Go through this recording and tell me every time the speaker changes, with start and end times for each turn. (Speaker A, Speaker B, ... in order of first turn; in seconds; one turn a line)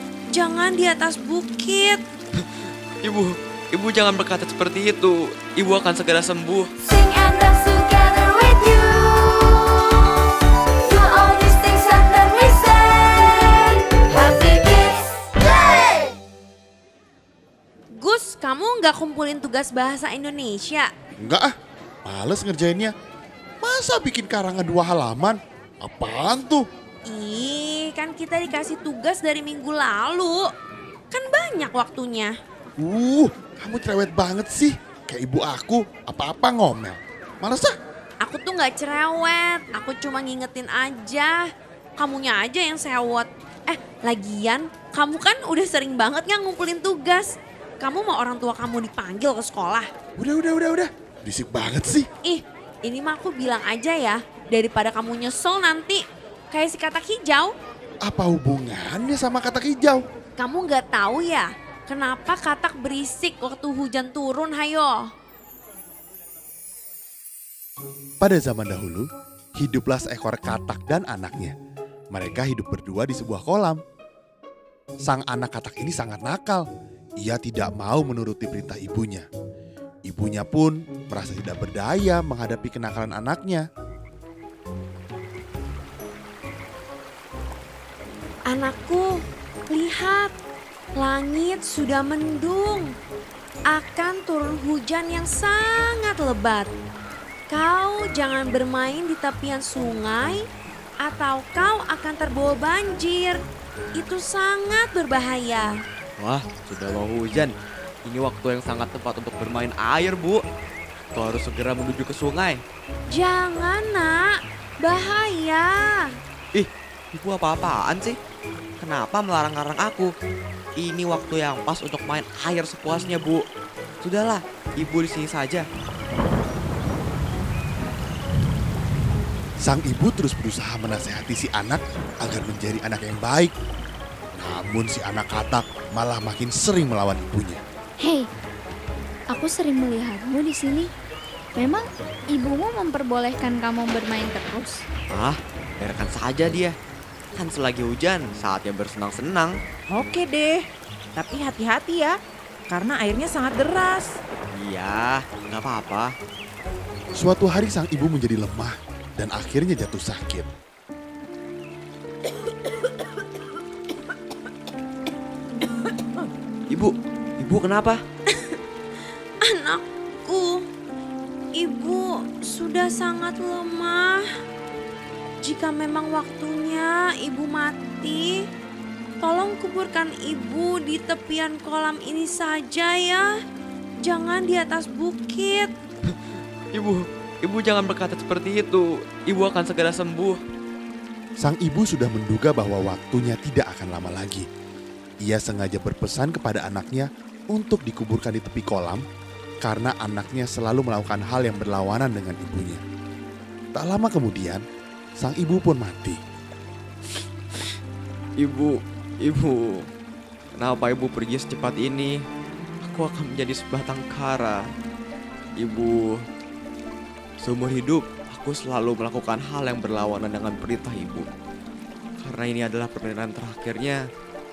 Speaker A: 0.3-2.0
Speaker B: 3.0-6.7
Speaker C: 6.8-16.1
Speaker A: 18.0-20.9
Speaker D: 21.2-21.5
Speaker D: 22.1-22.9
Speaker D: 23.6-26.6
Speaker A: 27.1-30.4
Speaker A: 31.1-32.3
Speaker D: 32.8-37.7
Speaker A: 38.2-41.4
Speaker A: 42.0-49.9
Speaker D: 50.2-52.1
Speaker A: 52.2-57.5
Speaker D: 58.1-60.0
Speaker A: 60.4-65.1
Speaker D: 68.2-69.1
Speaker D: 69.6-71.5
Speaker D: 72.1-73.8
Speaker D: 75.1-76.7
Speaker D: 77.2-79.3
Speaker D: 80.1-83.7
Speaker A: 88.5-90.3
Speaker A: 91.0-93.0
Speaker A: 93.7-96.7
Speaker A: 97.5-100.5
Speaker A: 101.0-103.4
Speaker A: 104.0-105.8
Speaker B: 106.2-110.4
Speaker B: 111.1-112.6
Speaker A: 113.1-116.1
Speaker B: 116.5-118.2
Speaker B: 118.8-120.1
Speaker B: 120.8-123.5
Speaker B: 124.0-125.7
Speaker D: 129.6-133.5
Speaker D: 134.4-137.6
Speaker E: 138.0-138.3
Speaker E: 139.3-140.9
Speaker E: 141.6-144.8
Speaker B: 145.1-146.8
Speaker B: 147.4-149.6
Speaker F: 149.9-154.2
Speaker B: 154.5-156.1
Speaker D: 157.2-160.5
Speaker B: 166.7-168.0
Speaker A: 168.3-168.6
Speaker A: 169.4-170.7
Speaker A: 171.6-174.2
Speaker A: 175.4-178.4
Speaker A: 179.2-183.3
Speaker A: 184.0-185.7
Speaker B: 186.7-190.4
Speaker D: 191.4-194.4
Speaker D: 195.2-199.0
Speaker D: 199.6-202.8
Speaker D: 203.7-204.6
Speaker D: 205.2-206.2
Speaker B: 208.4-209.9
Speaker B: 210.6-212.2
Speaker B: 212.8-214.6
Speaker B: 215.6-216.2
Speaker B: 217.4-221.3
Speaker B: 222.2-224.0